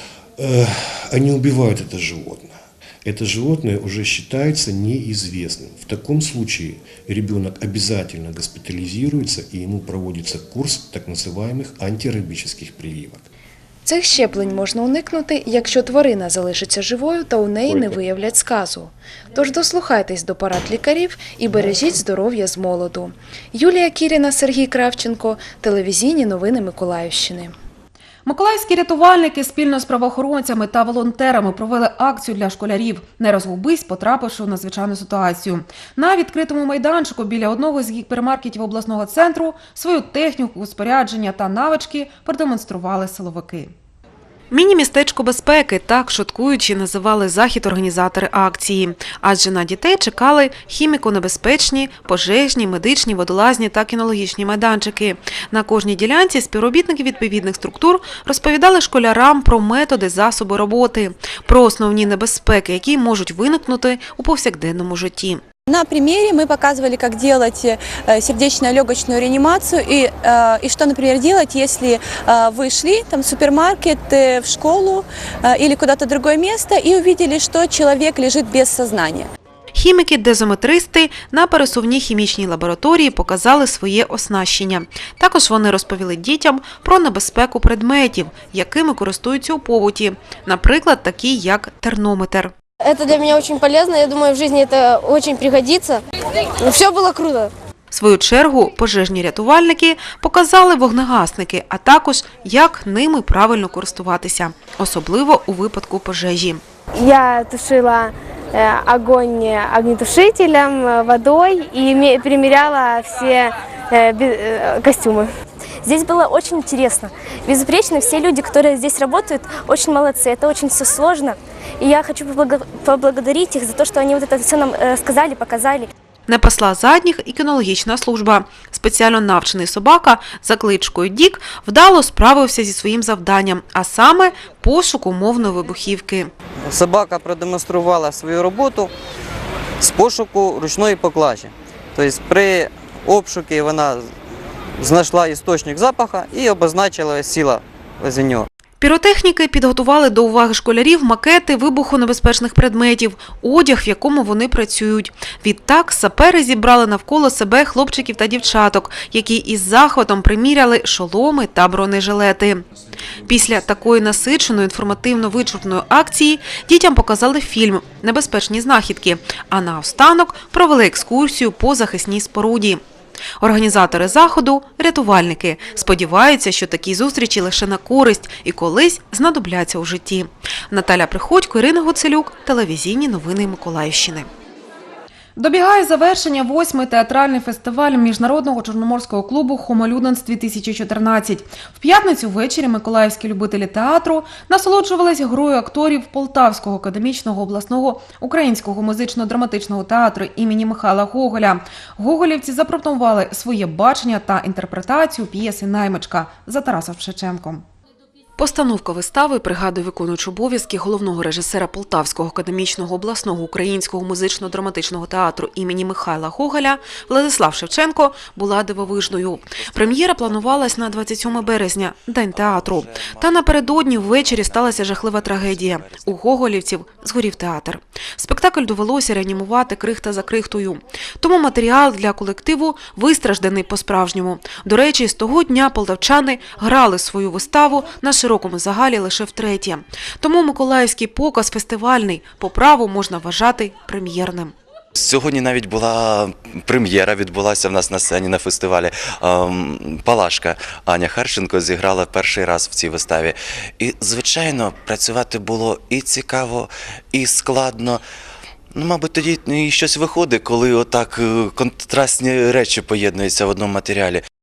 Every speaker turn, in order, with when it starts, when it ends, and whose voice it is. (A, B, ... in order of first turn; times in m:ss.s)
0:00.4-0:13.3 A
0:13.8-0:27.5 B
0:17.7-0:17.9 A
0:28.2-0:43.7 C
0:44.5-1:05.4 C
1:05.7-1:19.3 D
1:19.7-1:32.5 C
1:32.8-1:36.0 E
1:36.6-1:37.5 E
1:37.9-1:46.6 C
1:47.0-1:55.3 E
1:55.8-2:05.9 E
2:06.3-2:16.3 C
2:16.6-2:18.9 F
2:19.8-2:24.1 F
2:24.8-2:28.4 F
2:28.8-2:42.6 C
2:43.3-2:52.8 C
2:53.4-3:04.3 C
3:05.4-3:27.6 C
3:28.4-4:04.5 C
3:38.9-3:46.2 G
4:04.9-4:18.0 G
4:18.7-4:24.2 G